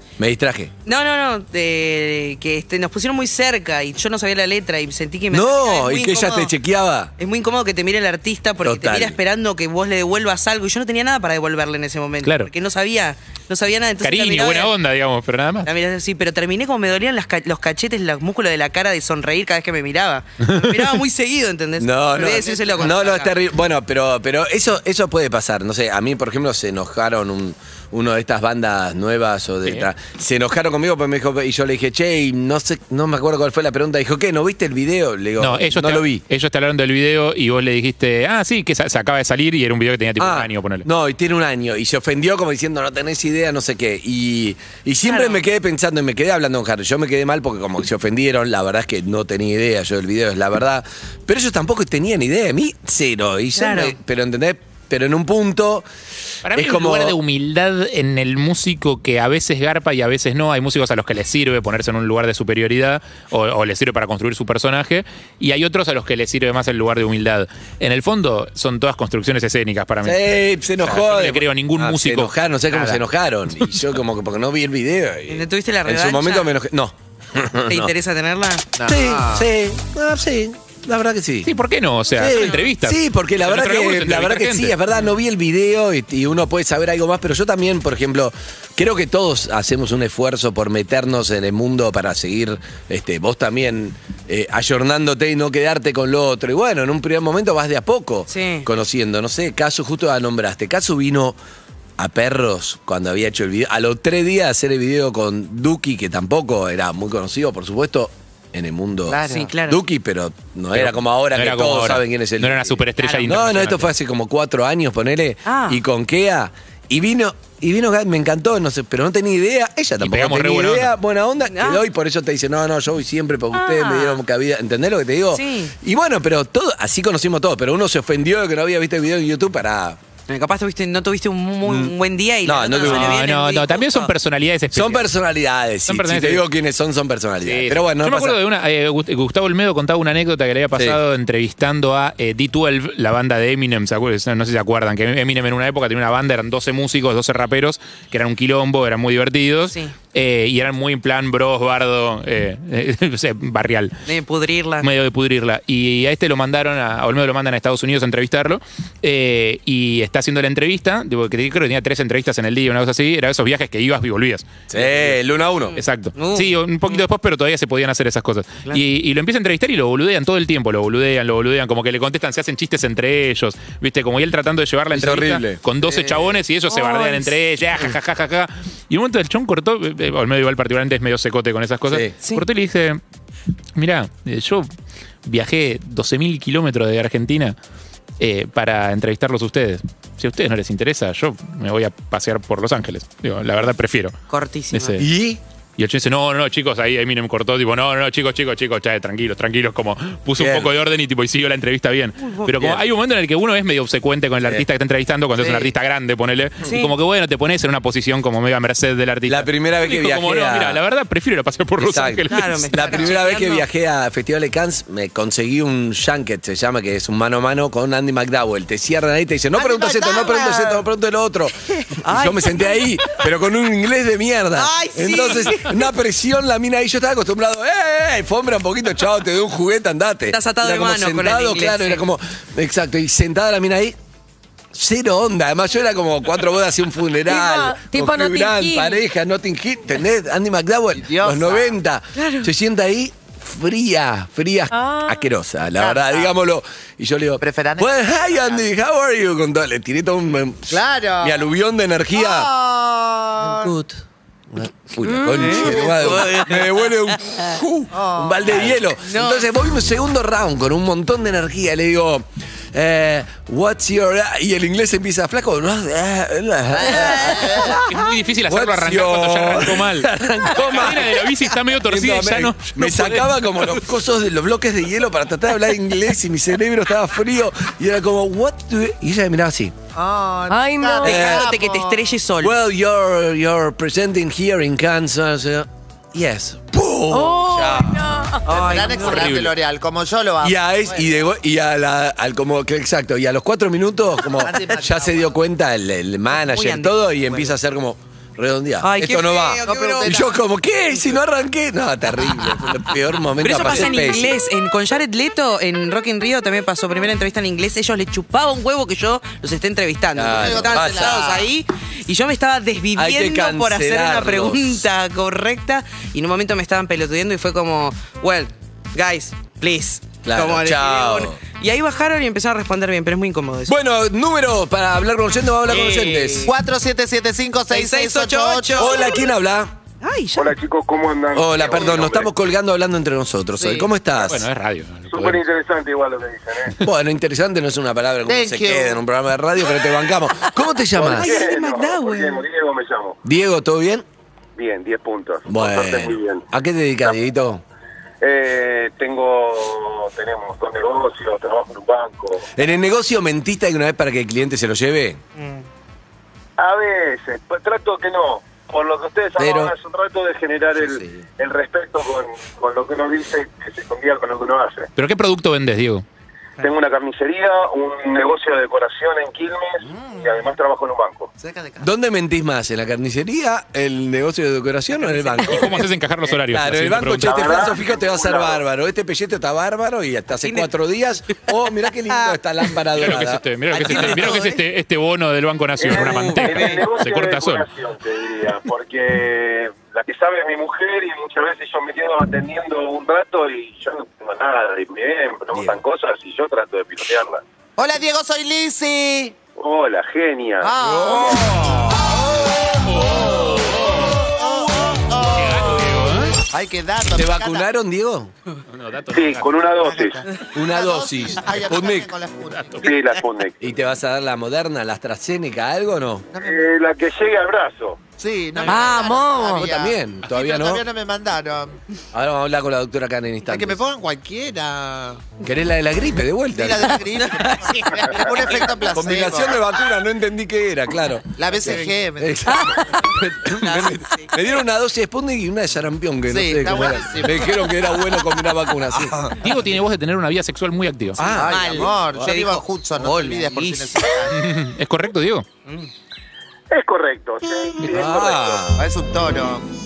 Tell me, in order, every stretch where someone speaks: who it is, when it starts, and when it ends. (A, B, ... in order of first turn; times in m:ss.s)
0:00.2-0:00.7 A
0:00.9-0:06.5 B
0:05.3-0:07.1 A
0:07.2-0:14.7 B
0:08.6-0:09.2 A
0:12.2-0:12.5 C
0:14.0-0:15.7 C
0:15.6-0:23.3 B
0:21.8-0:36.2 A
0:22.3-0:22.9 D
0:35.4-0:40.9 C
0:40.2-0:55.9 A
0:45.0-0:45.4 B
0:53.6-0:54.0 B
0:56.4-1:10.3 C
0:56.5-0:57.2 A
1:10.0-1:17.9 A
1:10.8-1:13.0 C
1:15.3-1:16.5 B
1:17.7-1:18.6 B
1:18.8-1:19.5 D
1:18.8-1:21.5 A
1:21.4-1:24.8 C
1:22.2-1:41.4 A
1:22.2-1:22.6 B
1:38.3-1:38.7 B
1:42.0-2:10.0 A
1:49.1-1:49.5 D
1:49.3-1:49.8 B
1:50.7-1:53.9 C
1:53.0-1:53.3 B
1:55.5-1:55.8 B
2:00.0-2:00.9 C
2:01.5-2:01.8 B
2:03.5-2:04.2 B
2:05.3-2:05.7 B
2:10.3-2:14.1 B
2:11.6-2:11.9 A
2:12.4-2:13.2 A
2:12.8-2:15.1 C
2:14.7-2:18.4 A
2:15.9-2:16.4 C
2:17.4-2:34.0 C
2:20.8-2:21.0 A
2:29.7-2:29.9 B
2:34.1-2:34.9 B
2:34.8-2:44.5 C
2:44.7-2:45.8 A
2:45.7-2:47.0 B
2:45.8-3:03.0 C
2:54.9-2:55.6 A
2:56.7-2:57.3 B
3:01.9-3:02.1 A
3:03.8-3:04.7 C
3:05.2-3:07.6 C
3:08.2-3:14.2 C
3:14.3-3:15.0 B
3:14.7-3:15.1 C
3:15.0-3:15.4 A
3:15.8-3:33.0 C
3:20.4-3:20.7 A
3:22.2-3:22.5 B
3:26.6-3:26.9 B
3:29.3-3:30.8 A
3:31.8-3:54.0 A
3:32.3-3:33.6 B
3:39.5-3:40.8 D
3:42.0-3:42.8 B
3:44.6-3:45.8 B
3:50.3-3:52.0 B
3:54.7-4:12.5 A
3:57.3-3:59.0 E
4:00.9-4:01.8 D
4:02.2-4:02.5 B
4:04.7-4:05.2 E
4:05.8-4:06.3 D
4:07.4-4:08.7 D
4:10.7-4:11.4 D
4:12.1-4:13.7 D
4:13.4-4:31.3 A
4:15.1-4:15.4 E
4:15.4-4:17.5 B
4:15.4-4:16.4 D
4:17.9-4:18.8 D
4:19.0-4:19.5 B
4:26.8-4:27.8 D
4:27.9-4:33.4 C
4:31.8-4:39.8 A
4:39.9-4:42.0 D
4:40.5-4:41.2 E
4:41.0-4:42.6 B
4:41.0-4:41.5 A
4:42.4-4:48.0 A
4:47.1-4:48.4 E
4:48.5-4:49.4 B
4:48.5-4:51.2 D
4:49.1-4:49.5 C
4:50.4-5:04.4 A
4:54.3-4:55.4 D
4:56.3-4:57.5 B
4:58.8-5:00.2 B
4:59.6-5:00.3 D
5:03.4-5:23.8 B
5:10.2-5:11.3 A
5:10.4-5:11.5 D
5:13.0-5:14.9 A
5:20.2-5:21.4 A
5:23.7-5:26.5 A
5:25.7-5:26.5 B
5:26.5-5:29.1 D
5:27.7-5:29.0 B
5:28.8-5:29.8 A
5:30.0-5:30.6 B
5:30.4-5:32.3 F
5:31.3-5:34.5 A
5:33.6-5:33.9 D
5:34.2-5:35.4 C
5:35.1-5:36.8 F
5:36.8-5:41.4 A
5:38.3-5:39.0 D
5:41.0-5:43.2 F
5:41.0-5:42.4 B
5:43.2-5:44.1 A
5:44.6-5:46.5 F
5:45.5-5:47.6 A
5:48.2-5:52.5 F
5:52.6-5:55.2 A
5:55.4-5:55.6 B
5:56.6-6:04.9 F
5:59.4-5:59.7 A
6:05.0-6:06.0 C
6:06.6-6:11.3 F
6:09.9-6:10.4 D
6:11.4-6:11.9 D
6:11.8-6:15.8 A
6:15.2-6:15.4 B
6:15.5-6:17.5 C
6:16.5-6:23.4 A
6:17.2-6:18.6 F
6:20.4-6:20.7 B
6:23.0-6:27.7 C
6:23.7-6:24.6 B
6:25.8-6:37.4 F
6:25.9-6:26.8 B
6:37.8-6:39.4 D
6:39.6-6:41.5 F
6:40.6-6:47.7 D
6:40.8-6:41.4 A
6:42.9-6:44.2 C
6:45.4-6:46.4 C
6:47.1-6:48.3 A
6:48.7-6:49.6 C
6:49.1-6:50.2 F
6:49.8-6:53.1 D
6:50.5-6:52.1 A
6:52.5-6:52.9 C
6:52.8-6:53.6 F
6:53.6-6:56.3 A
6:56.3-6:56.7 D
6:56.4-6:58.0 F
6:58.2-7:01.8 D
6:58.6-6:59.2 B
6:58.7-6:59.7 E
6:59.6-7:00.8 A
7:02.1-7:03.8 A
7:03.5-7:05.3 D
7:05.4-7:19.2 A
7:06.5-7:09.6 D
7:11.4-7:13.0 D
7:13.6-7:14.3 B
7:16.3-7:18.0 D
7:18.9-7:19.4 D
7:19.4-7:21.2 C
7:21.2-7:22.3 A
7:21.3-7:24.5 D
7:21.4-7:24.1 B
7:24.3-7:25.5 C
7:26.7-7:28.6 F
7:27.8-7:28.9 A
7:28.8-7:29.7 D